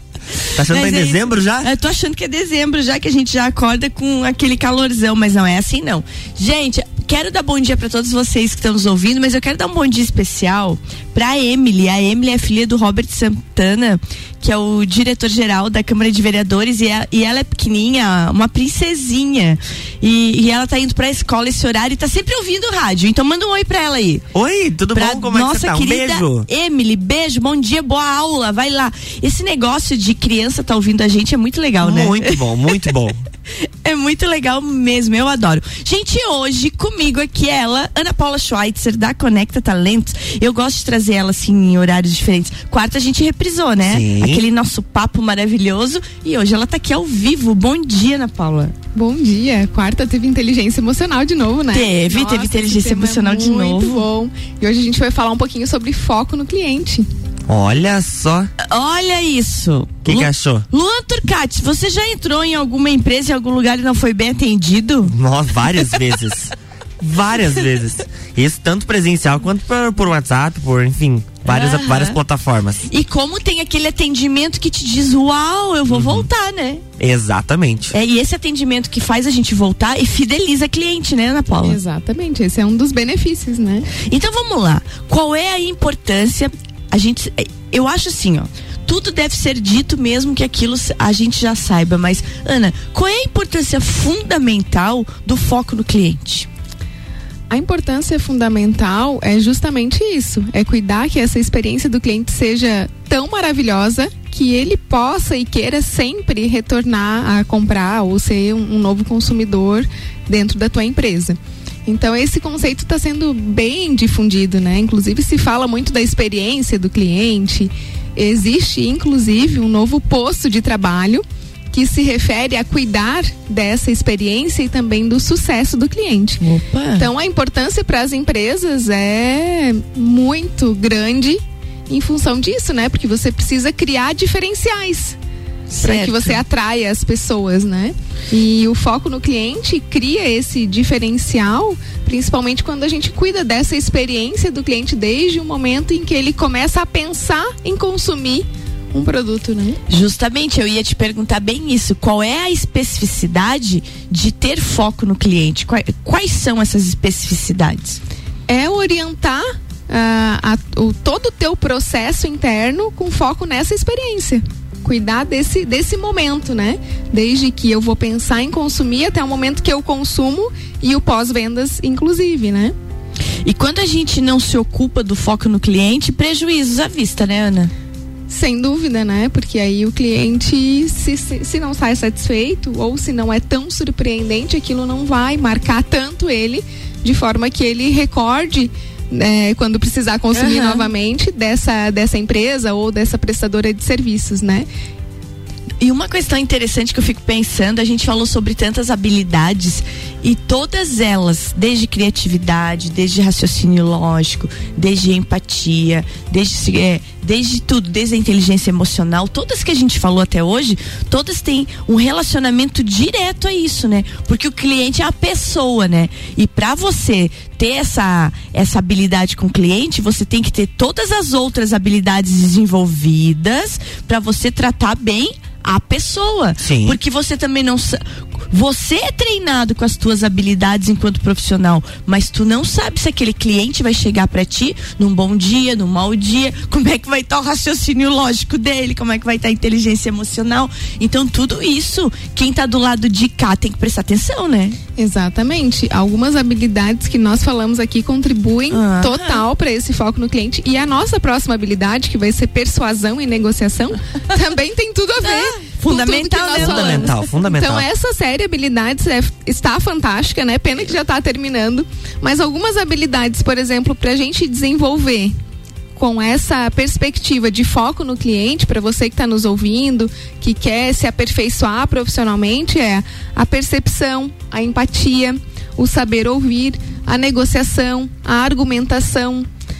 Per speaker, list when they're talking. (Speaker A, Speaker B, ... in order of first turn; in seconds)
Speaker A: 0.4-24.3, 24.9-32.4, 33.6-48.7, 51.7-54.1, 58.6-65.1, 71.5-72.2, 72.8-76.8, 77.9-81.8, 83.9-96.5, 126.4-127.1, 135.7-136.4, 149.9-158.0, 173.4-177.7, 190.3-190.8, 195.8-244.8, 248.7-249.4, 255.2-257.1
Speaker B: 0.5-1.7, 24.3-26.4, 31.8-33.2, 43.8-44.4, 57.5-58.5, 60.0-60.6, 65.1-72.9, 75.9-76.3, 77.0-77.9, 226.6-227.0, 256.5-257.9
Speaker C: 48.9-57.1, 81.6-83.9, 97.5-126.4, 127.0-135.2, 135.8-149.8, 158.5-172.7, 178.3-194.7, 244.9-265.3, 265.9-279.4